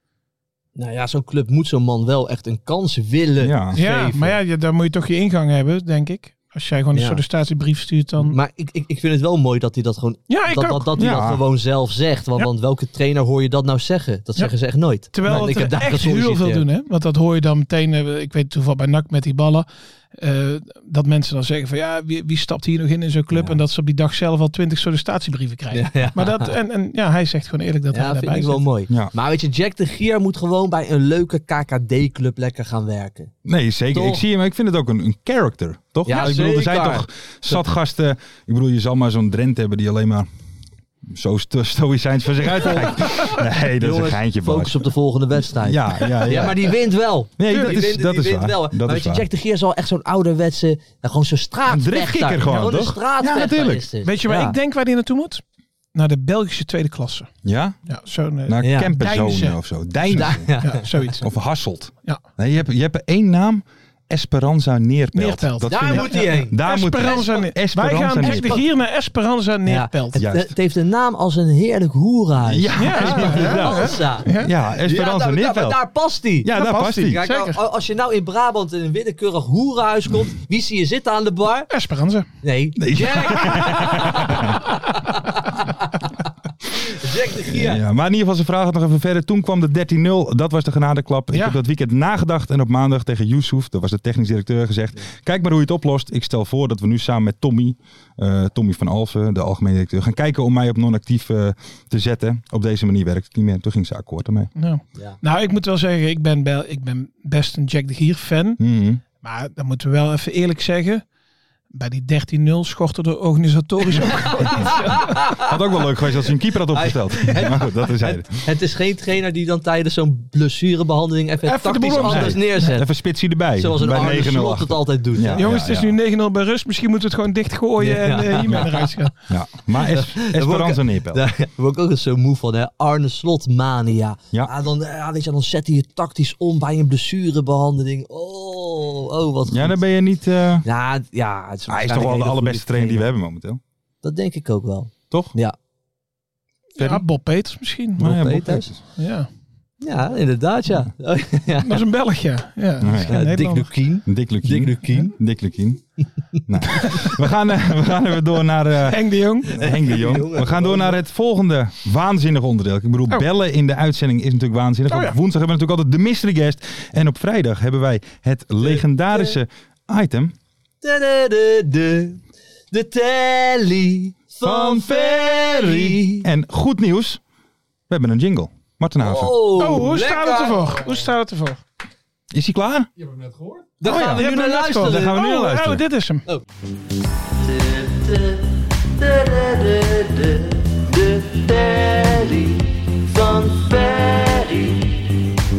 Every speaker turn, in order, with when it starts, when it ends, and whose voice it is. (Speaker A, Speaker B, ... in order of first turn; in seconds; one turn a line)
Speaker A: 0.8-4.4
Speaker B: 3.4-3.8
Speaker C: 3.7-8.3
Speaker A: 6.9-7.2
Speaker A: 8.2-16.6
Speaker C: 10.3-10.9
Speaker B: 11.0-11.4
Speaker C: 15.1-28.6
Speaker A: 23.3-23.6
Speaker A: 25.7-26.5
Speaker A: 27.9-33.3
Speaker B: 33.4-40.3
Speaker A: 33.9-34.2
Speaker A: 36.0-37.6
Speaker B: 41.0-44.8
Speaker A: 42.6-43.2
Speaker A: 43.8-54.5
Speaker B: 45.5-46.7
Speaker B: 47.4-49.2
Speaker B: 51.7-53.8
Speaker C: 54.0-55.4
Speaker C: 55.9-57.3
Speaker B: 57.4-57.8
Speaker C: 57.9-59.6
Speaker B: 58.5-60.5
Speaker A: 58.6-58.9
Speaker A: 60.1-60.8
Speaker C: 60.1-61.3
Speaker B: 61.2-68.6
Speaker C: 65.1-70.2
Speaker A: 65.7-66.6
Speaker A: 68.2-68.6
Speaker A: 69.7-81.7
Speaker B: 70.2-70.5
Speaker B: 72.5-75.8
Speaker C: 72.8-74.5
Speaker B: 76.4-77.2
Speaker C: 76.5-77.6
Speaker C: 81.7-82.3
Speaker A: 82.4-85.9
Speaker B: 82.8-84.7
Speaker A: 86.7-87.8
Speaker B: 87.5-104.5
Speaker C: 104.5-108.6
Speaker B: 108.6-109.0
Speaker C: 109.2-111.0
Speaker C: 111.7-115.2
Speaker A: 114.5-115.5
Speaker B: 115.3-118.4
Speaker A: 116.7-122.9
Speaker C: 121.4-122.6
Speaker B: 122.0-126.0
Speaker A: 123.5-125.4
Speaker C: 125.3-129.1
Speaker A: 127.8-128.9
Speaker B: 129.3-131.2
Speaker A: 129.9-139.8
Speaker B: 139.5-140.6
Speaker A: 140.6-143.1
Speaker B: 141.7-143.6
Speaker A: 144.0-145.6
Speaker C: 146.8-148.3
Speaker B: 146.8-147.0
Speaker B: 148.0-148.8
Speaker A: 148.0-148.7
Speaker C: 148.8-149.3
Speaker A: 149.8-151.8
Speaker C: 151.6-153.7
Speaker B: 152.8-153.2
Speaker A: 153.0-155.1
Speaker B: 154.1-155.8
Speaker A: 156.3-157.1
Speaker B: 156.5-170.3
Speaker C: 158.8-159.7
Speaker A: 159.5-161.0
Speaker C: 164.9-165.2
Speaker A: 168.6-169.4
Speaker A: 170.8-176.2
Speaker B: 174.4-177.2
Speaker B: 177.9-179.3
Speaker A: 179.0-180.9
Speaker C: 179.6-181.6
Speaker B: 182.3-182.9
Speaker A: 183.8-185.2
Speaker B: 183.8-184.3
Speaker C: 184.0-186.2
Speaker B: 184.8-185.8
Speaker A: 187.3-195.0